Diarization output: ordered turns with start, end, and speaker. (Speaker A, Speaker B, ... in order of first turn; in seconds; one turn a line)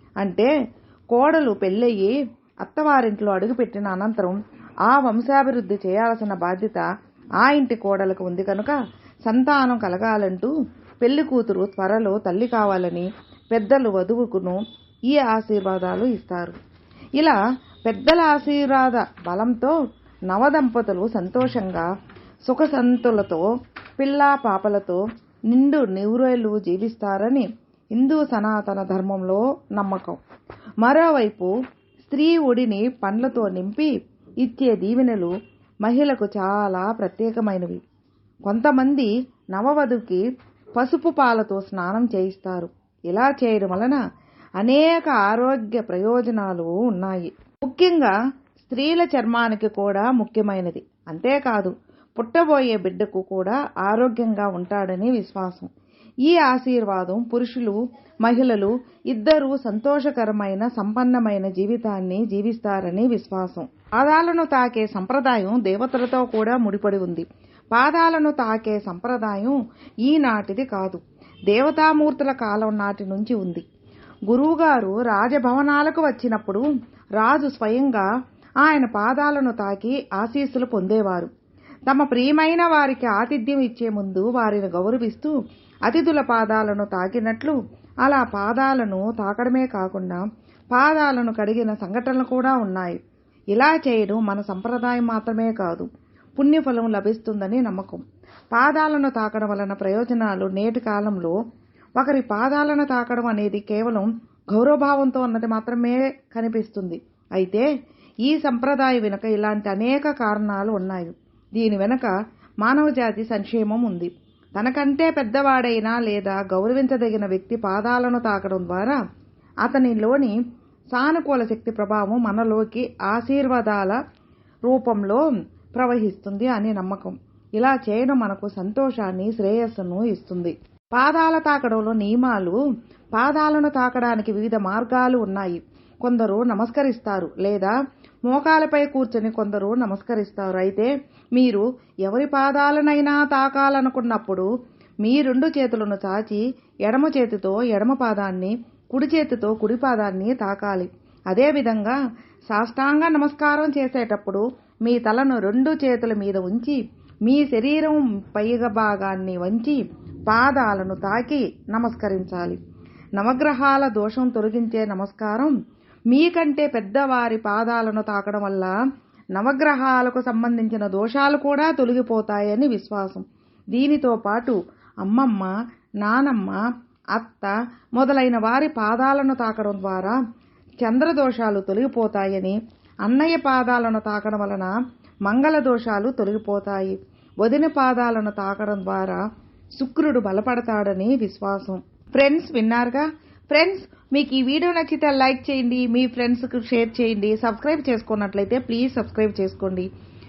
Speaker A: 0.2-0.5
Speaker A: 1.1-6.9
Speaker A: 7.4-16.6
Speaker A: 17.2-19.8
Speaker A: 20.3-21.9
Speaker A: 22.5-23.5
Speaker A: 24.0-30.2
Speaker A: 30.8-37.8
Speaker A: 38.5-40.2
Speaker A: 40.8-44.0
Speaker A: 44.6-55.7
Speaker A: 56.3-73.6
Speaker A: 74.3-76.6
Speaker A: 77.2-78.1
Speaker A: 78.6-81.3
Speaker A: 81.9-85.3
Speaker A: 85.9-93.0
Speaker A: 93.5-101.4
Speaker A: 102.0-107.7
Speaker A: 108.3-119.0
Speaker A: 119.6-120.4
Speaker A: 120.9-124.0
Speaker A: 124.7-125.2
Speaker A: 125.7-132.6
Speaker A: 133.2-137.7
Speaker A: 138.3-144.5
Speaker A: 145.0-152.0
Speaker A: 152.5-162.6
Speaker A: 163.2-165.5
Speaker A: 166.1-168.7
Speaker A: 169.3-176.6
Speaker A: 177.2-180.2
Speaker A: 180.8-184.7
Speaker A: 185.3-189.2
Speaker A: 189.8-199.9